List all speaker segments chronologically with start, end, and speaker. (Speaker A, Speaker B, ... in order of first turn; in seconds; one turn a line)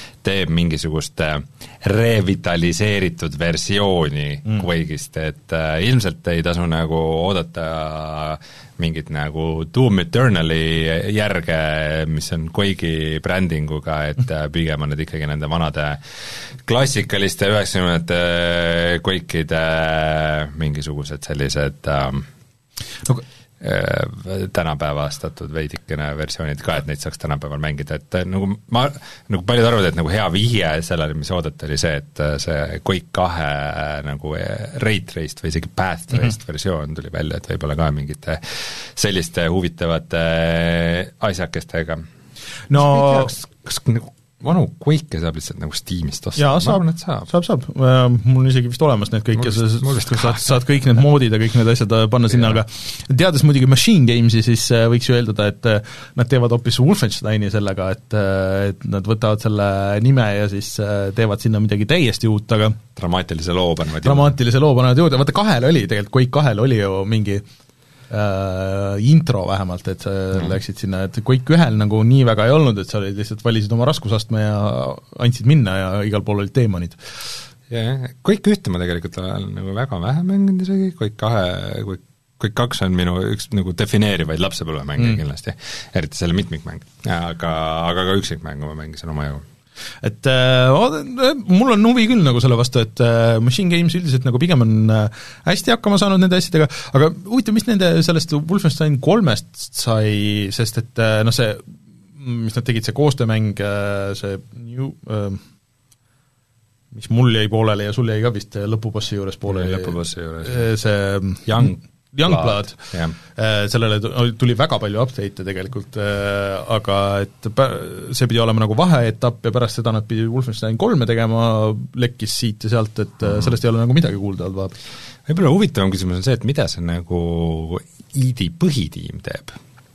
Speaker A: 0.2-16.0
Speaker A: 16.6-22.3
Speaker A: 23.6-42.0
Speaker B: 42.7-43.3
Speaker A: 42.7-47.3
Speaker B: 46.4-62.8
Speaker A: 49.4-50.4
Speaker A: 63.0-64.3
Speaker B: 64.0-67.4
Speaker B: 68.1-77.0
Speaker A: 77.7-89.4
Speaker B: 90.0-101.6
Speaker B: 102.2-105.4
Speaker B: 106.9-124.7
Speaker A: 109.5-110.7
Speaker A: 111.5-113.2
Speaker A: 125.3-129.6